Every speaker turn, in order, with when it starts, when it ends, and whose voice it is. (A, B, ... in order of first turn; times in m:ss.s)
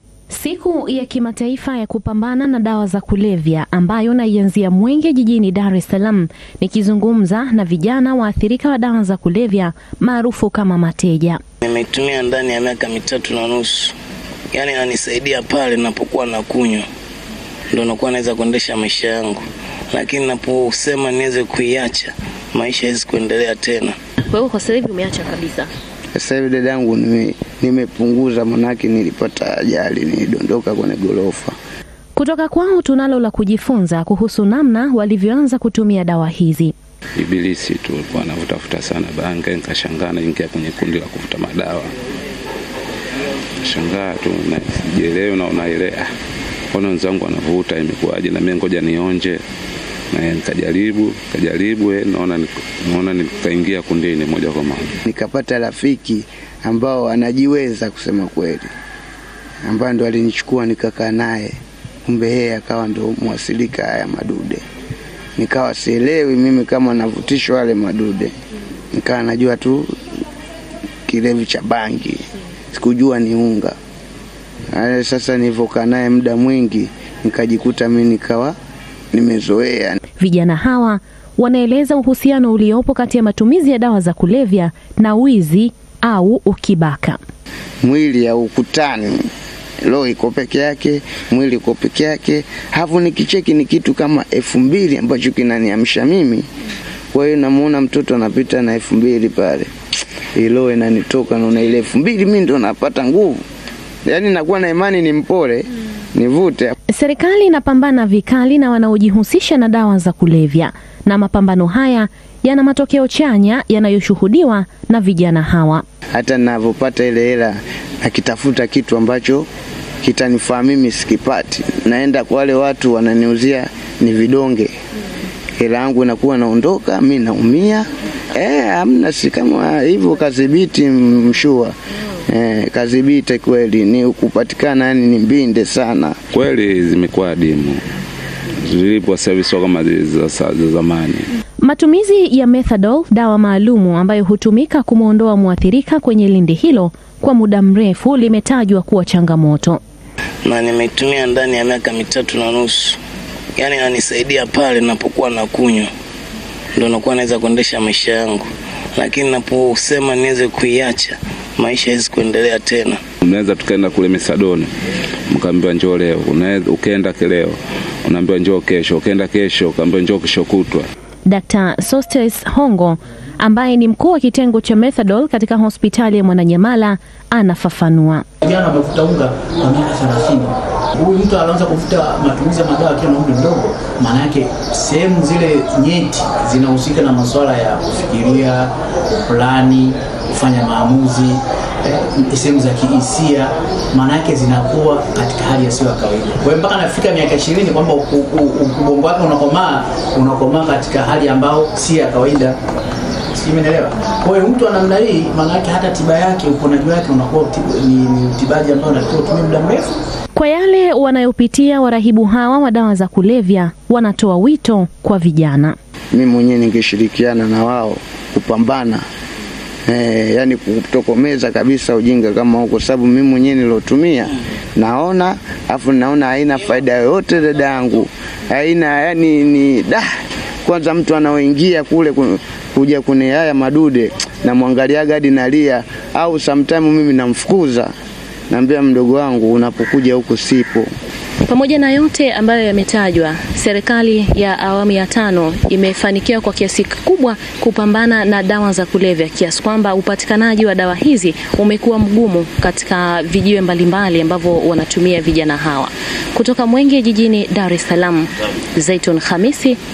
0:00.3-0:11.4 A
0:11.6-0:13.9 B
0:14.5-0:16.8 B
0:17.7-0:24.0 B
0:24.3-0:25.7 A
0:26.2-0:31.6 C
0:32.2-0:36.7 A
0:37.2-0:41.9 D
0:43.6-0:46.0 D
0:46.7-0:49.4 D
0:50.1-0:54.9 D
0:55.0-0:58.7 C
0:59.6-1:04.6 C
1:05.4-1:08.3 C
1:08.9-1:10.0 C
1:11.1-1:13.8 C
1:14.7-1:18.6 C
1:19.1-1:20.0 C
1:20.2-1:27.2 A
1:27.8-1:29.2 C
1:29.8-1:36.4 C
1:37.1-1:39.7 C
1:40.4-1:43.4 C
1:44.0-1:46.8 C
1:46.9-1:55.8 A
1:56.2-1:59.5 C
2:00.0-2:04.7 C
2:05.6-2:11.7 C
2:12.3-2:16.2 C
2:16.3-2:17.8 D
2:18.6-2:21.3 D
2:21.6-2:29.8 A
2:30.4-2:33.0 B
2:33.6-2:35.9 B
2:36.8-2:43.0 B
2:43.2-2:44.7 D
2:45.3-2:50.9 D
2:51.3-2:58.2 A
2:58.4-3:22.6 E
3:23.4-3:29.9 E
3:30.4-3:35.8 A
3:36.1-3:39.0 C
3:39.9-3:50.1 C
3:50.6-3:57.9 C
3:58.5-4:00.9 C
4:01.4-4:19.8 A